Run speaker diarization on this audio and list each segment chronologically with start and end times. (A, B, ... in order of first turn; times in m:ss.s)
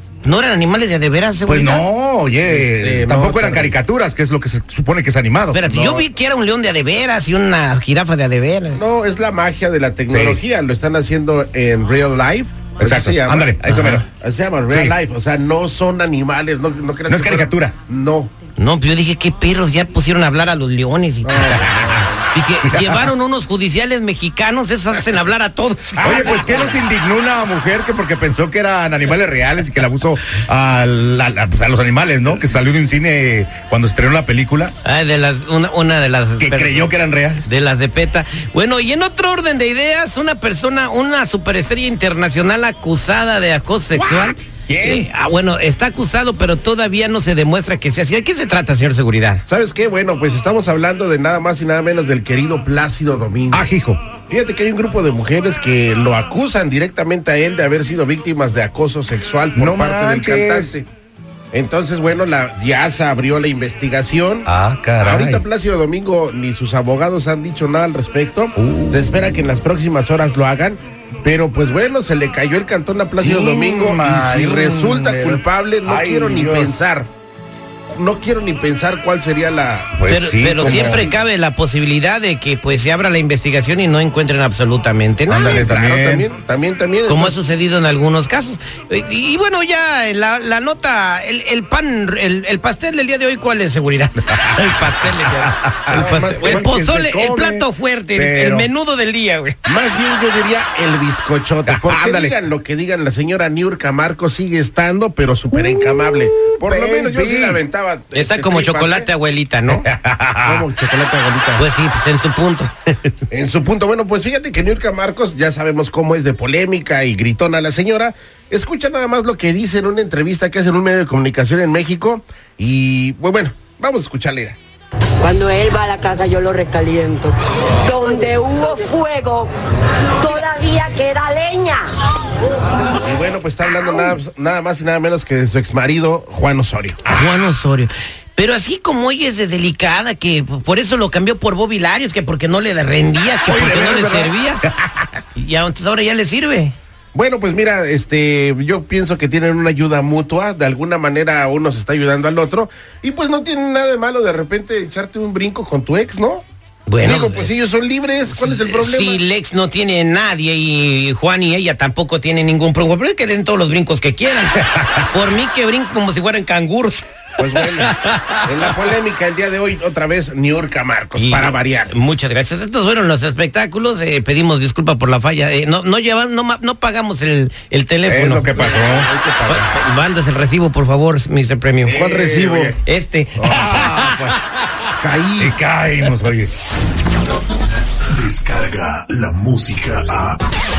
0:00.2-0:01.8 A
0:01.4-0:05.6 B
0:02.4-0:03.8 C
0:05.5-0:08.8 A
0:05.7-0:06.0 C
0:08.8-0:18.3 C
0:10.1-0:10.4 B
0:12.8-0:14.0 B
0:14.7-0:14.9 B
0:17.1-0:17.7 B
0:18.6-0:21.6 A
0:21.2-0:22.2 C
0:21.5-0:22.0 B
0:22.3-0:26.8 A
0:22.6-0:23.1 B
0:26.0-0:26.8 C
0:26.0-0:34.7 B
0:34.8-0:36.9 A
0:36.4-0:37.5 B
0:37.4-0:49.4 A
0:43.9-0:45.1 B
0:49.4-0:53.6 C
0:53.5-0:54.0 B
0:54.3-1:00.8 C
0:59.5-1:00.9 B
1:01.5-1:04.5 C
1:04.4-1:05.4 B
1:05.0-1:17.1 C
1:08.6-1:09.2 B
1:13.2-1:16.8 B
1:17.9-1:19.9 C
1:19.9-1:21.1 B
1:20.1-1:25.7 A
1:20.5-1:21.1 C
1:25.3-1:26.3 B
1:25.3-1:27.4 C
1:27.0-1:39.6 A
1:35.2-1:38.7 B
1:35.9-1:36.7 C
1:39.6-1:49.1 C
1:41.6-1:42.3 B
1:45.5-1:47.6 B
1:48.1-1:49.8 A
1:49.7-1:50.6 B
1:50.4-1:51.6 C
1:51.6-1:53.1 A
1:53.3-2:04.6 C
2:05.2-2:07.3 D
2:07.8-2:09.4 D
2:10.2-2:11.8 D
2:13.0-2:17.0 C
2:17.0-2:17.4 B
2:17.1-2:24.6 A
2:23.4-2:25.2 B
2:25.3-2:26.7 A
2:27.1-2:36.4 C
2:36.9-2:37.5 A
2:37.0-2:39.2 C
2:38.3-2:47.0 A
2:44.7-2:45.0 B
2:47.4-2:47.9 C
2:47.8-2:48.5 A
2:48.4-2:51.9 C
2:51.2-2:58.6 A
2:58.0-2:59.1 B
2:58.4-2:59.7 C
2:59.4-3:02.0 A
3:01.8-3:02.8 B
3:01.9-3:02.8 C
3:02.8-3:04.1 A
3:03.4-3:04.3 B
3:05.0-3:05.5 C
3:05.4-3:06.5 B
3:08.1-3:10.4 E